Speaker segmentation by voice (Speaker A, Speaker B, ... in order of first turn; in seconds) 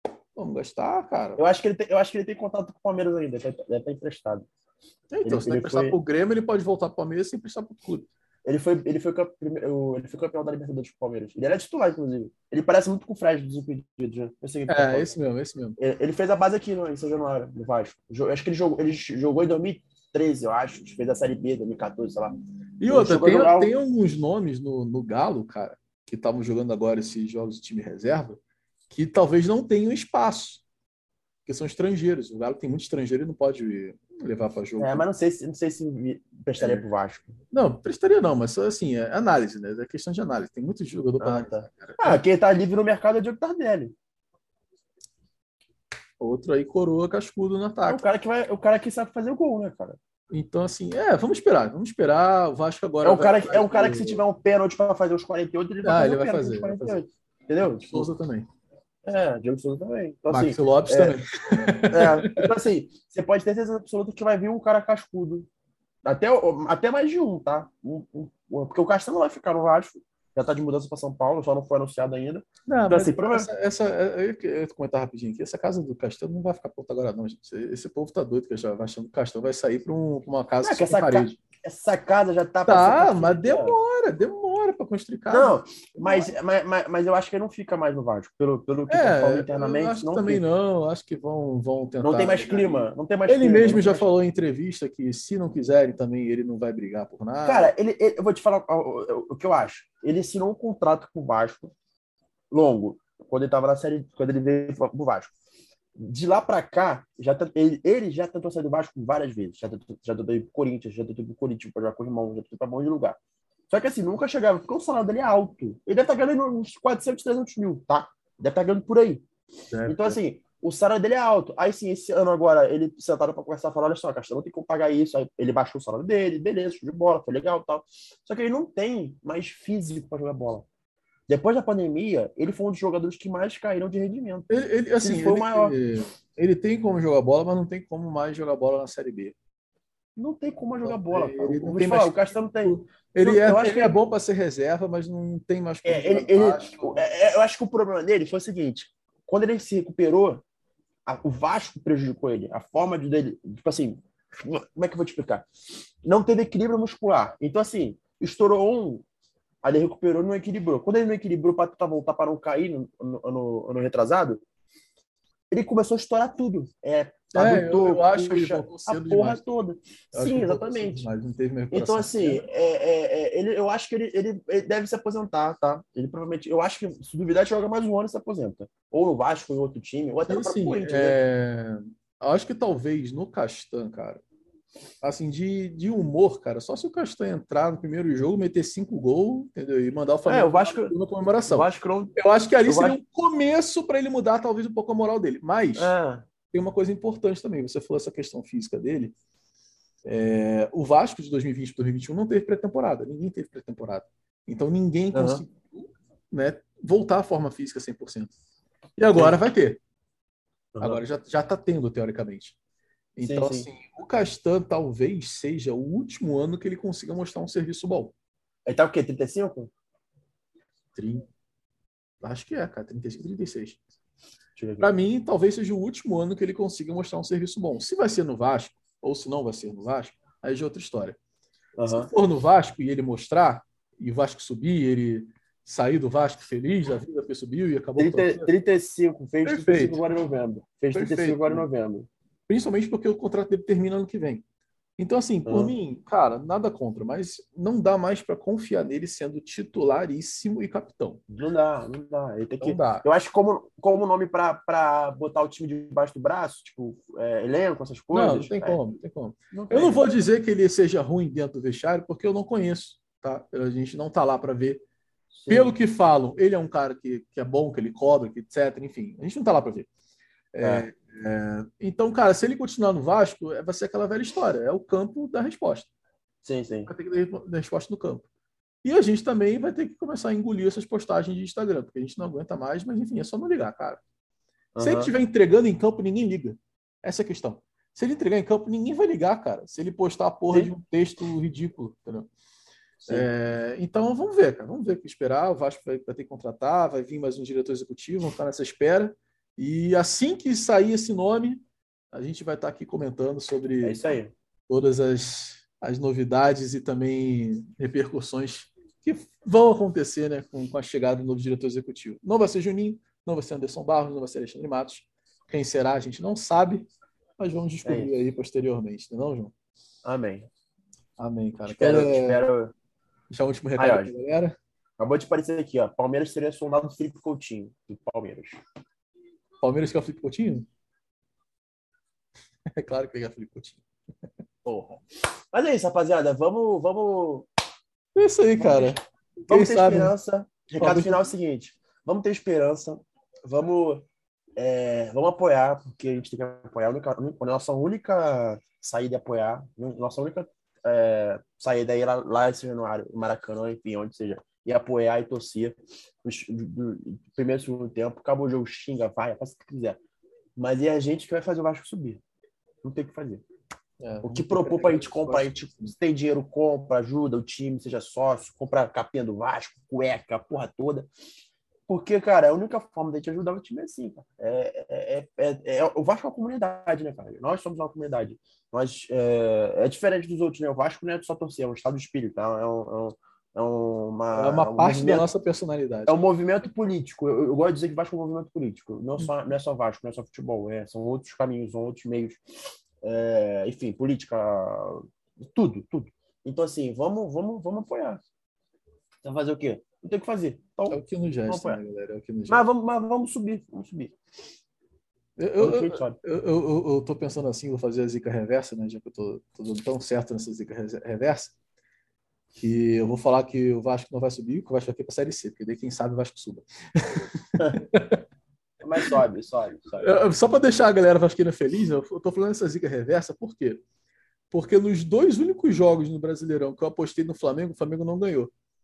Speaker A: 0.4-1.4, 5.1-8.1, 14.7-15.8, 22.8-30.6, 31.5-35.1, 36.6-36.9, 37.5-42.2, 46.2-48.0, 50.3-54.2, 55.8-57.0, 57.8-58.5, 60.3-62.5, 72.7-81.4, 82.7-86.3, 88.9-97.7, 119.7-120.2, 134.5-139.4, 140.8-147.1, 167.3-169.4, 170.1-172.4, 180.3-184.2, 185.0-195.9, 196.5-199.1, 200.1-208.3, 209.0-209.8, 210.8-212.6, 213.2-218.1, 220.9-221.3, 222.2-223.8, 224.8-231.2, 231.8-238.5, 239.4-240.0, 240.9-241.7, 242.5-244.4, 245.0-251.2, 252.6-253.1, 258.1-264.8, 265.5-269.9, 270.5-275.9, 276.9-278.2, 278.8-284.0, 284.8-292.3, 293.1-301.6, 302.1-304.0, 304.7-319.5, 321.2-322.4, 323.3-324.6, 329.6-330.7, 332.7-333.8, 338.1-340.1, 340.8-341.1, 364.0-365.9, 384.3-386.2, 400.9-402.7, 405.4-411.5, 412.6-418.2, 420.0-423.8, 424.5-428.5
Speaker B: 1.4-4.5, 5.2-6.0, 8.4-15.1, 15.8-23.7, 34.8-37.3, 41.2-43.9, 47.9-50.0, 53.0-58.1, 59.0-61.2, 61.9-65.5, 66.0-73.5, 80.6-83.8, 85.3-90.4, 92.0-94.1, 97.4-101.7, 102.5-105.3, 106.0-113.2, 113.7-119.2, 119.9-130.7, 131.3-134.5, 135.0-135.8, 140.2-144.0, 145.8-150.4, 151.1-155.5, 156.0-159.1, 159.6-164.4, 165.5-171.1, 171.7-181.2, 190.3-190.9, 191.5-192.1, 192.7-193.0, 195.8-196.2, 205.1-205.4, 209.1-209.4, 210.8-211.0, 213.2-213.7, 218.7-219.7, 224.6-224.9, 231.8-232.1, 238.0-242.1, 245.5-245.8, 251.3-258.8, 259.5-260.1, 265.3-265.8, 276.4-276.9, 284.8-285.1, 293.0-293.3, 303.8-304.3, 317.8-318.1, 320.0-320.5, 321.7-322.7, 323.8-324.1, 325.0-328.6, 334.6-335.0, 335.5-337.5, 338.6-338.9, 339.5-344.1, 344.6-360.0, 360.6-362.2, 362.8-363.4, 364.2-371.1, 371.9-385.3, 386.1-392.4, 393.0-398.2, 399.2-401.8, 402.5-404.2, 405.6-406.2, 418.8-420.2